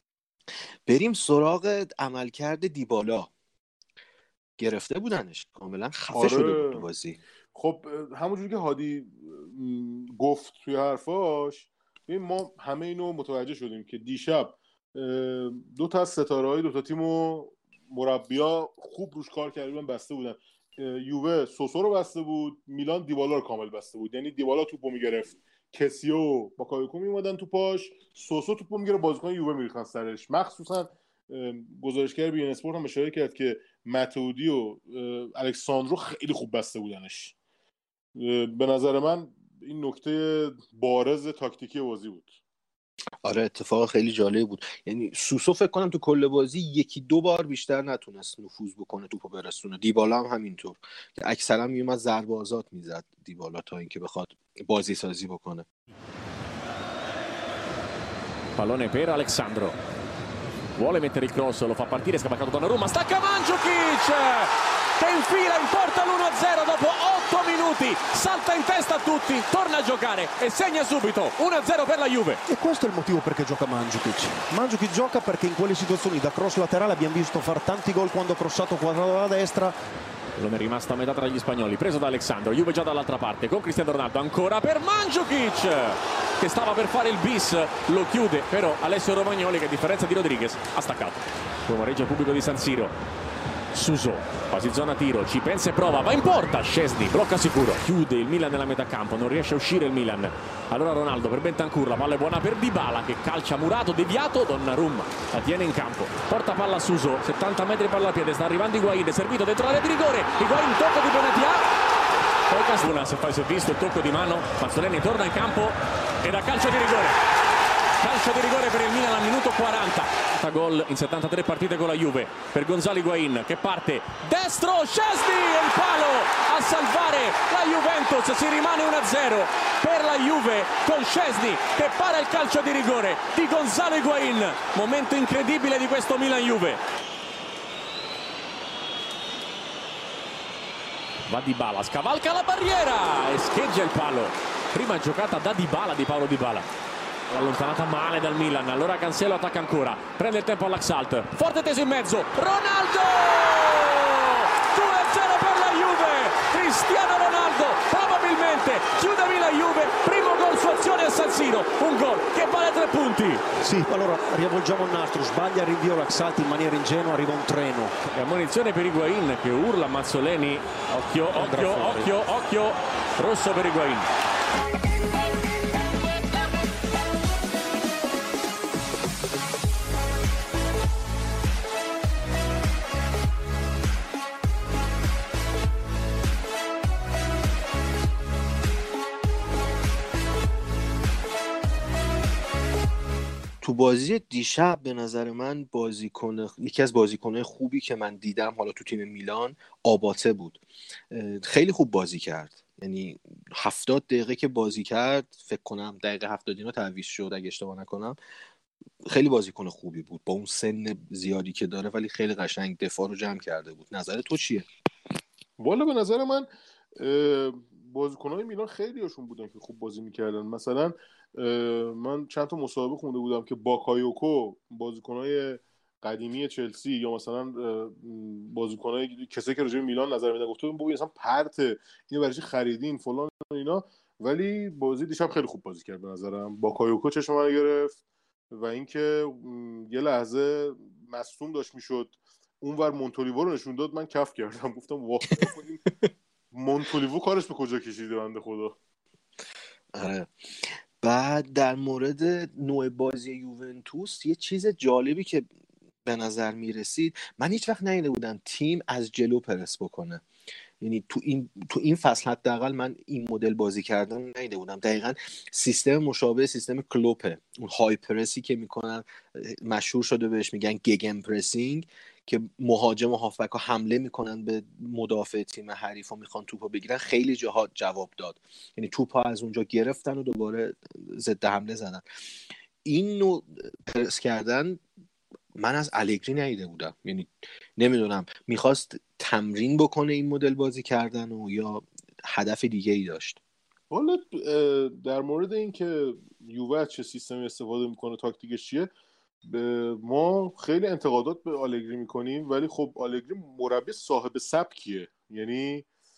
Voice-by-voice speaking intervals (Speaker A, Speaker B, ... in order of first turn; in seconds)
Speaker A: 0.9-3.3, 4.6-7.2, 43.2-55.7, 193.6-200.6, 201.1-208.2, 209.1-214.7, 249.9-255.5, 256.1-260.2, 260.8-282.1, 282.9-284.8, 285.6-293.4
Speaker B: 6.1-6.9, 7.5-37.4, 38.2-42.4, 215.6-216.5, 217.0-245.8, 246.5-248.8, 293.9-298.9, 299.5-305.9
Speaker C: 58.6-59.8, 60.8-72.4, 80.4-92.9, 93.7-111.7, 112.5-117.2, 118.0-136.8, 141.3-146.7, 147.3-163.4, 168.1-174.1
Speaker D: 72.5-79.8, 163.6-167.9, 171.3-172.2